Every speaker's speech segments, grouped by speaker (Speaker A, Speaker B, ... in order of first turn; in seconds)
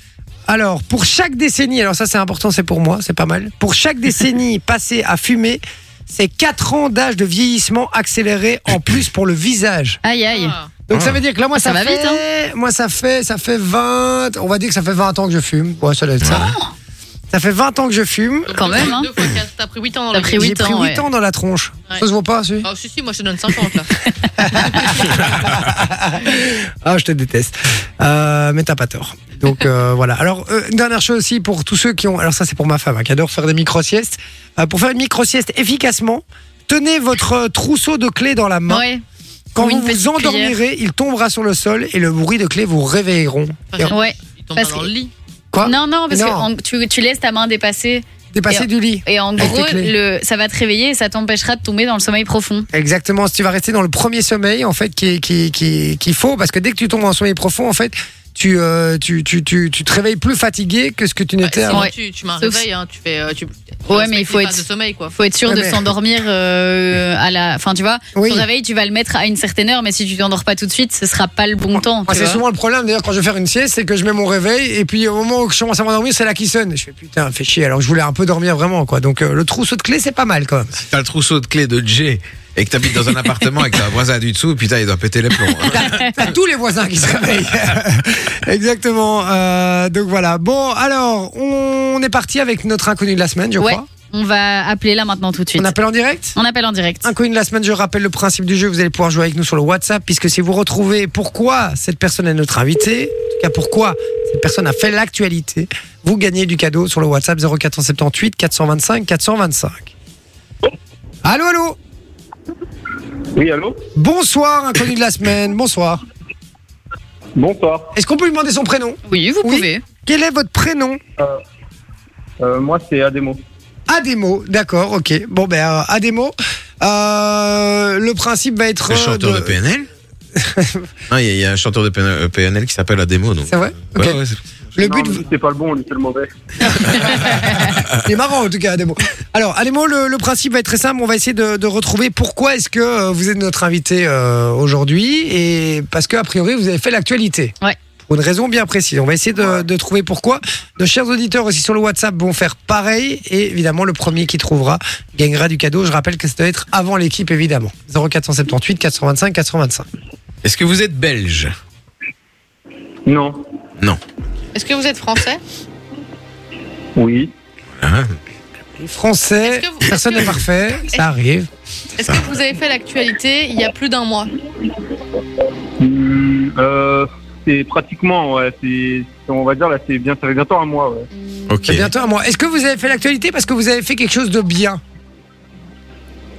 Speaker A: 0.5-10.0, 10.9-16.5, 17.3-18.6, 20.4-22.7, 24.4-38.8, 39.5-43.9, 45.5-46.5, 48.3-49.9, 52.7-61.9, 65.5-65.9, 68.1-68.5, 72.1-80.7, 86.2-93.9, 95.6-96.4, 97.0-109.9, 111.2-111.8, 113.9-116.0, 117.9-121.0, 123.9-129.6, 130.3-130.9, 133.5-134.2, 134.8-135.2, 136.7-159.9, 168.8-171.5, 181.7-184.8
Speaker B: 10.0-10.5, 11.6-12.2, 18.6-19.1, 20.1-21.0, 38.7-39.0, 39.6-40.5, 43.9-44.9, 45.6-52.7, 61.7-62.6, 63.9-64.6, 65.1-72.4, 85.7-86.1, 93.6-95.7, 96.4-97.1, 119.1-119.8
Speaker C: 10.3-10.7, 18.5-20.6, 22.6-24.0, 24.5-25.2, 43.7-45.1, 61.4-65.1, 164.6-165.4, 169.4-170.4, 172.0-174.3
Speaker D: 10.9-11.2, 16.2-16.5, 80.8-86.2, 128.9-129.9, 131.1-134.3, 160.4-161.5, 167.8-168.1, 181.5-181.9
Speaker E: 113.3-113.8, 117.4-117.9, 122.4-123.4, 134.8-136.3, 163.1-163.4, 166.9-167.3, 175.8-181.1